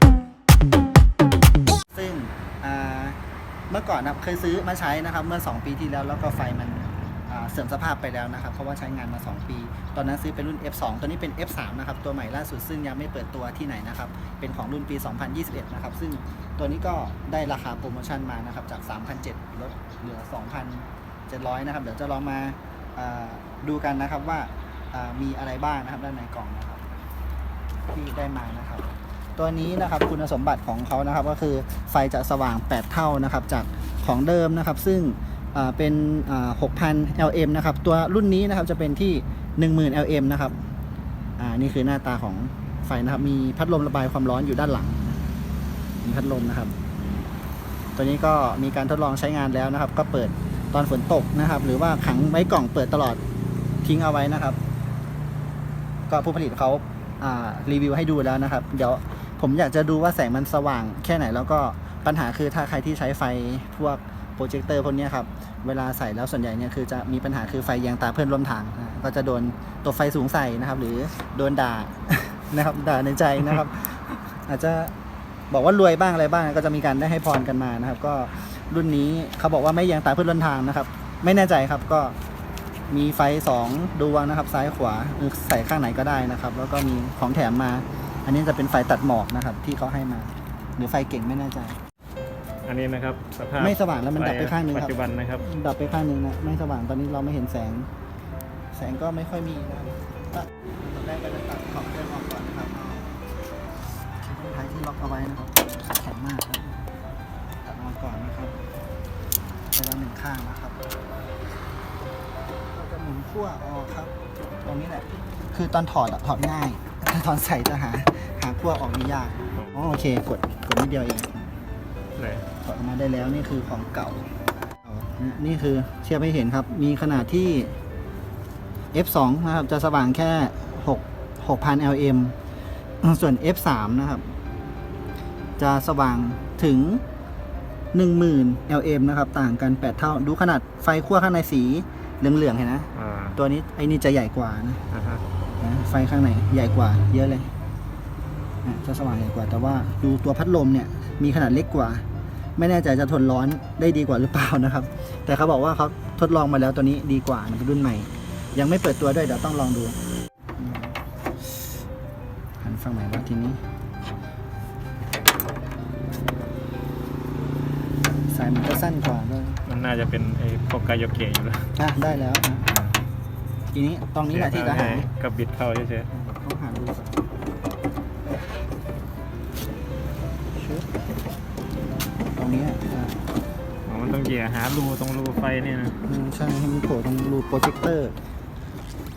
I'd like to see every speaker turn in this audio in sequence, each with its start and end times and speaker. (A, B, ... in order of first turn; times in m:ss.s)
0:01.9-0:03.2 A
0:03.7-0:26.8 A
0:27.9-0:40.6 A
0:41.4-0:45.2 A
0:46.0-0:46.7 A
0:48.0-0:53.2 A
0:53.8-0:54.6 A
0:56.1-1:14.9 A
1:15.5-1:22.2 A
1:22.9-1:31.8 A
1:32.6-1:35.4 B
1:33.6-1:37.9 A
1:38.7-1:43.2 A
1:44.2-1:46.8 A
1:47.6-1:48.6 A
1:49.7-1:50.8 A
1:52.7-1:54.1 A
1:54.6-2:01.5 A
2:02.2-2:02.4 B
2:02.6-2:04.3 A
2:04.8-2:07.8 A
2:08.9-2:12.3 A
2:13.0-2:14.2 A
2:15.6-2:17.0 A
2:17.9-2:24.8 A
2:22.9-2:23.4 B
2:24.9-2:25.2 B
2:25.6-2:27.5 A
2:28.6-2:32.0 A
2:32.6-2:40.0 A
2:40.6-2:40.9 A
2:42.6-2:43.6 A
2:48.3-2:49.6 A
2:49.6-2:51.7 B
2:51.8-2:52.7 A
2:53.7-2:55.1 A
2:54.3-2:56.1 B
2:56.1-2:57.3 A
3:00.6-3:00.8 A
3:02.4-3:03.2 A
3:03.8-3:06.0 B
3:06.0-3:08.2 A